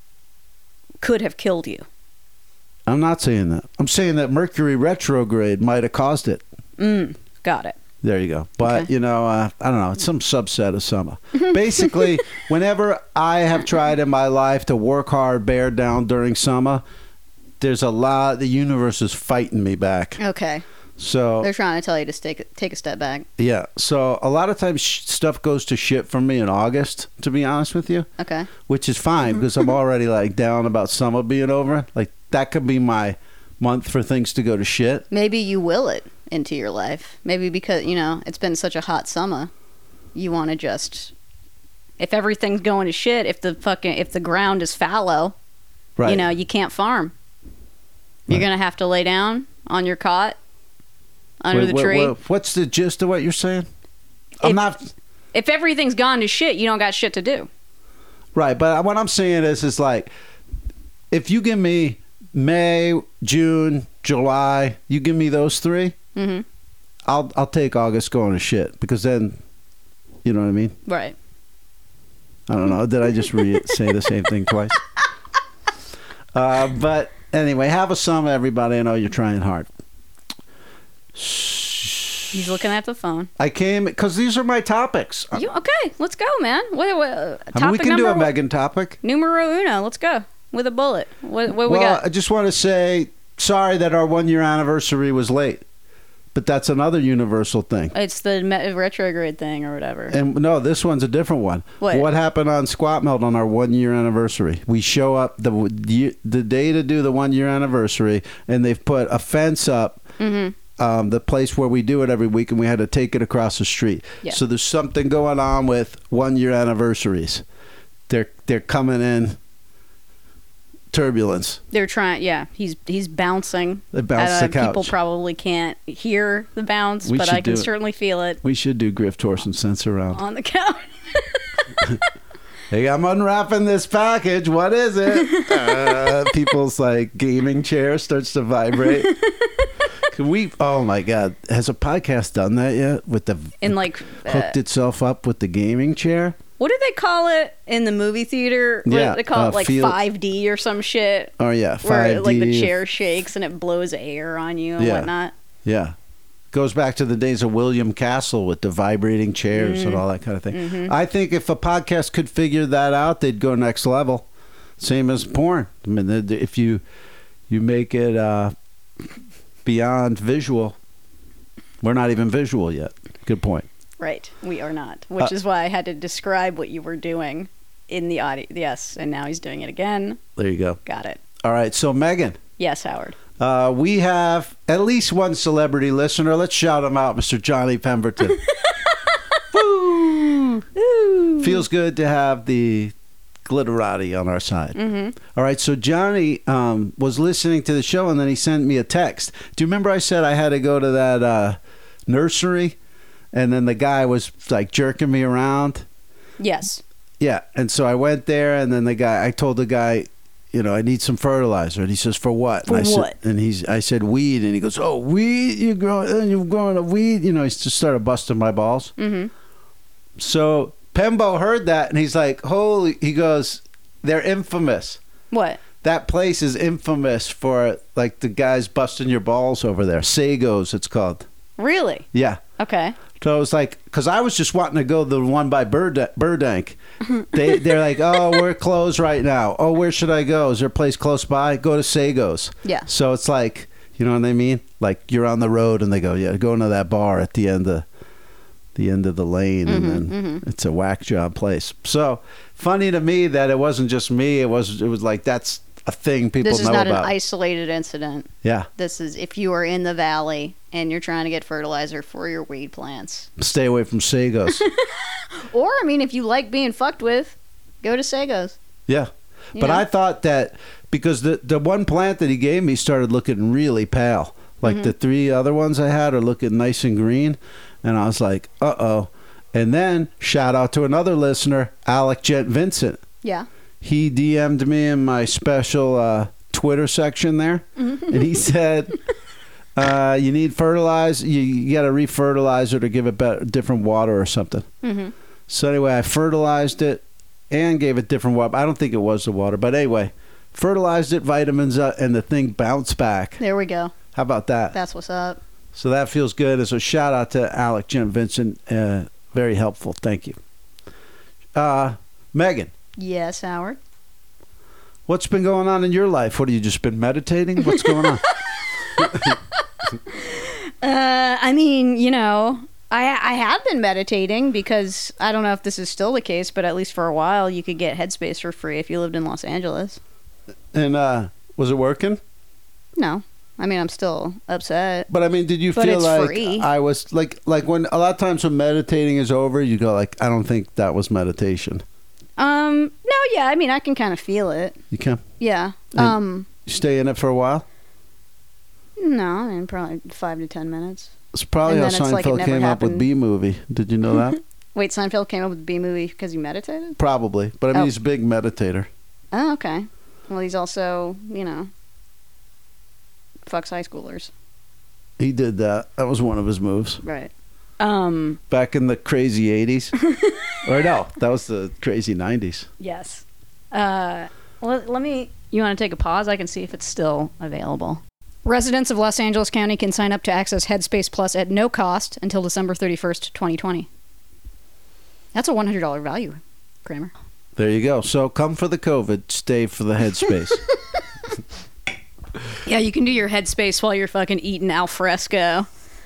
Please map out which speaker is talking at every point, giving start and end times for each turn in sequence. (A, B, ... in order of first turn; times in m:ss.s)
0:01.0-0:01.9 A
0:02.9-0:06.4 B
0:06.8-0:07.8 A
0:08.0-0:16.8 B
0:11.4-0:12.0 A
0:17.6-0:20.2 B
0:20.2-0:20.6 A
0:21.0-0:21.5 B
0:21.4-0:23.3 A
0:23.4-0:28.1 B
0:28.2-0:28.5 A
0:28.7-0:35.1 B
0:35.1-0:39.5 A
0:40.2-0:41.1 A
0:42.0-0:45.4 A
0:46.0-0:46.3 B
0:46.1-0:47.1 A
0:48.3-0:50.4 A
0:51.4-0:52.1 A
0:51.5-0:53.7 B
0:54.4-0:54.9 B
0:55.3-0:57.5 A
0:58.4-1:00.1 B
1:01.1-1:06.0 B
1:06.2-1:06.4 A
1:07.1-1:09.4 B
1:10.2-1:10.8 B
1:10.9-1:11.2 A
1:12.5-1:14.8 B
1:16.3-1:19.7 B
1:21.1-1:22.5 B
1:22.3-1:23.3 A
1:23.4-1:25.5 B
1:25.3-1:28.3 A
1:27.5-1:29.0 B
1:29.0-1:32.0 A
1:31.5-1:35.6 B
1:36.3-1:37.9 B
1:37.9-1:40.2 A
1:40.1-1:50.0 B
1:41.8-1:42.1 A
1:50.2-1:50.6 A
1:50.8-1:57.4 B
1:58.1-1:59.4 B
2:00.9-2:01.6 B
2:01.7-2:08.4 A
2:03.9-2:04.9 B
2:07.0-2:07.7 B
2:08.4-2:10.2 B
2:10.1-2:12.0 A
2:12.7-2:19.1 B
2:15.1-2:16.2 A
2:18.8-2:19.7 A
2:20.1-2:26.4 B
2:23.6-2:24.6 A
2:26.6-2:35.3 A
2:28.9-2:30.0 B
2:31.4-2:32.7 B
2:34.8-2:35.1 B
2:35.6-2:35.9 B
2:36.5-2:44.3 B
2:39.5-2:40.9 A
2:44.8-2:46.8 B
2:47.5-2:48.5 B
2:49.6-2:50.8 B
2:51.8-2:53.7 B
2:54.0-3:00.2 A
3:00.4-3:00.8 B
3:00.8-3:01.2 A
3:01.4-3:02.4 B
3:02.6-3:03.2 A
3:03.4-3:08.4 B
3:08.4-3:09.1 A
3:09.5-3:10.7 B
3:10.8-3:11.6 A
3:11.4-3:12.9 B
3:13.4-3:22.8 B
3:14.8-3:15.2 A
3:23.3-3:25.9 B
3:26.4-3:26.8 A
3:27.2-3:38.9 B
3:32.7-3:33.2 A
3:39.0-3:39.3 A
3:40.2-3:45.0 B
3:45.3-3:45.6 A
3:45.8-3:51.2 B
3:51.6-3:52.1 A
3:52.1-3:52.4 B
3:52.6-3:53.0 A
3:53.2-3:56.8 B
3:57.3-4:07.9 B
4:08.8-4:17.1 B
4:09.7-4:10.4 A
4:16.4-4:23.3 A
4:23.4-4:24.6 B
4:24.5-4:28.6 A
4:28.9-4:43.0 B
4:29.6-4:29.8 A
4:34.6-4:34.9 A
4:43.8-4:49.0 B
4:49.8-4:54.7 B
4:54.8-4:55.1 A
4:55.5-5:03.4 B
5:03.4-5:03.9 A
5:04.1-5:04.8 B
5:04.7-5:05.4 A
5:05.7-5:10.4 B
5:11.6-5:12.7 B
5:13.0-5:13.8 A
5:15.1-5:18.2 B
5:17.6-5:19.4 A
5:19.0-5:19.4 B
5:20.1-5:30.0 A
5:30.7-5:32.2 B
5:33.0-5:35.1 A
5:35.1-5:41.8 B
5:35.7-5:36.7 A
5:42.4-5:44.8 A
5:44.9-5:45.2 B
5:45.4-5:46.5 A
5:46.6-5:47.6 B
5:49.0-5:51.1 A
5:51.3-5:54.4 B
5:51.6-5:53.0 A
5:54.8-5:57.0 A
5:57.0-5:58.9 B
5:59.3-6:01.7 A
6:03.5-6:04.3 A
6:05.2-6:07.0 B
6:07.0-6:08.4 A
6:08.5-6:09.9 B
6:10.0-6:10.4 A
6:10.6-6:12.7 B
6:12.8-6:23.9 A
6:25.3-6:27.1 A
6:27.6-6:30.6 B
6:32.6-6:35.7 A